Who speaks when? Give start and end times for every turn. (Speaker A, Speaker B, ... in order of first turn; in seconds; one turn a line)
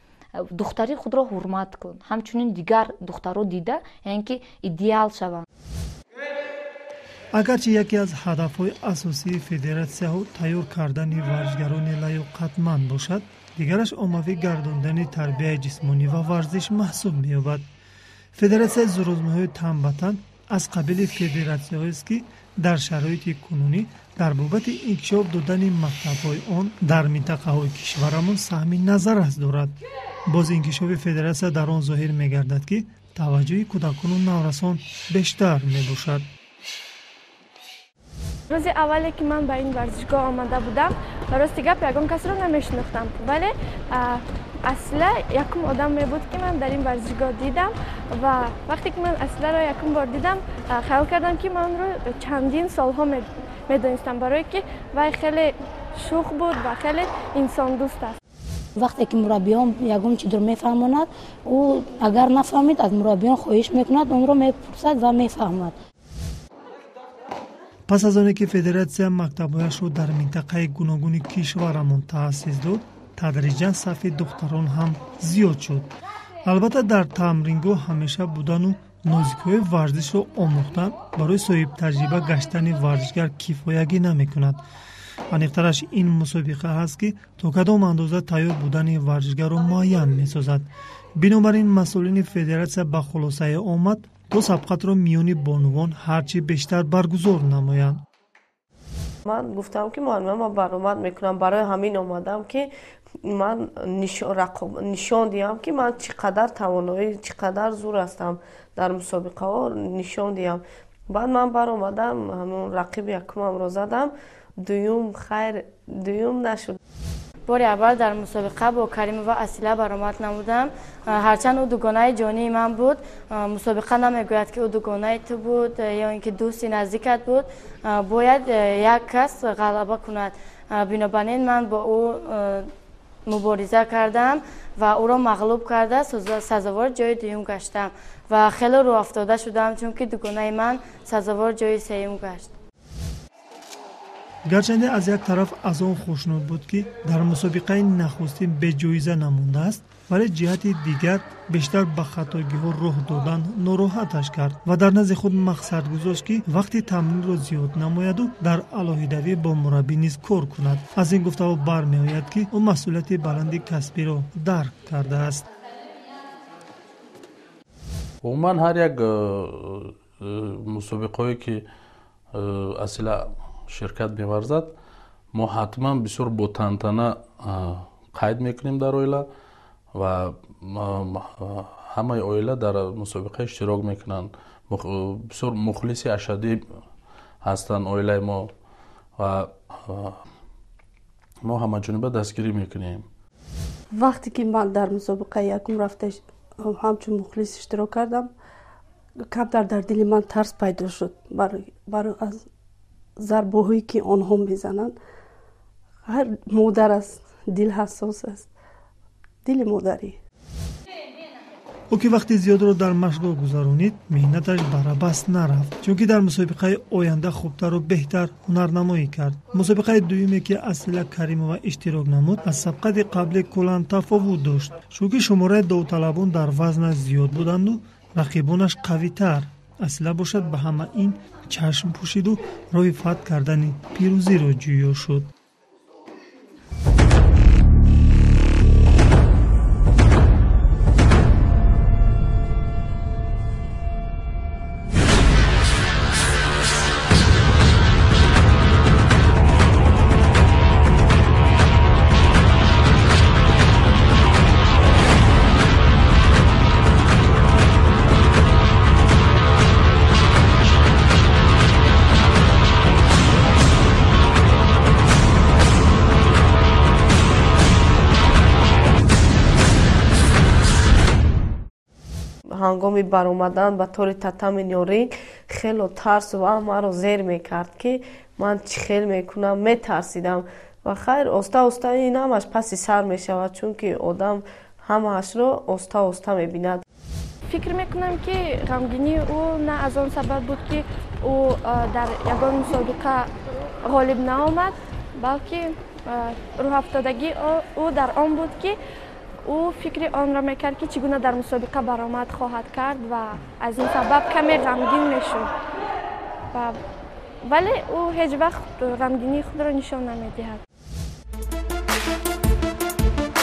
Speaker A: 0.3-5.5
Speaker B: 7.3-17.6
Speaker B: 18.3-36.2
Speaker C: 38.5-58.2
Speaker D: 58.8-65.8
Speaker B: 67.9-75.9
Speaker B: 76.4-84.6
Speaker B: 85.3-98.0
Speaker E: 99.2-116.8
Speaker F: 117.5-132.7
Speaker F: 133.2-142.5
Speaker B: 144.4-165.4
Speaker G: 168.2-171.6
Speaker G: 172.3-174.7
Speaker G: 175.3-179.3
Speaker G: 179.9-186.6
Speaker G: 187.4-188.5
Speaker G: 189.2-190.1
Speaker G: 191.4-193.0
Speaker H: 193.9-198.3
Speaker H: 199.3-202.4
Speaker H: 203.2-204.9
Speaker H: 206.1-208.5
Speaker H: 209.4-210.2
Speaker B: 211.9-235.3
Speaker E: 272.5-286.8
Speaker C: 287.5-293.3
Speaker C: 293.8-298.8
Speaker C: 299.4-305.5
Speaker C: 306.5-306.8
Speaker C: 307.4-310.6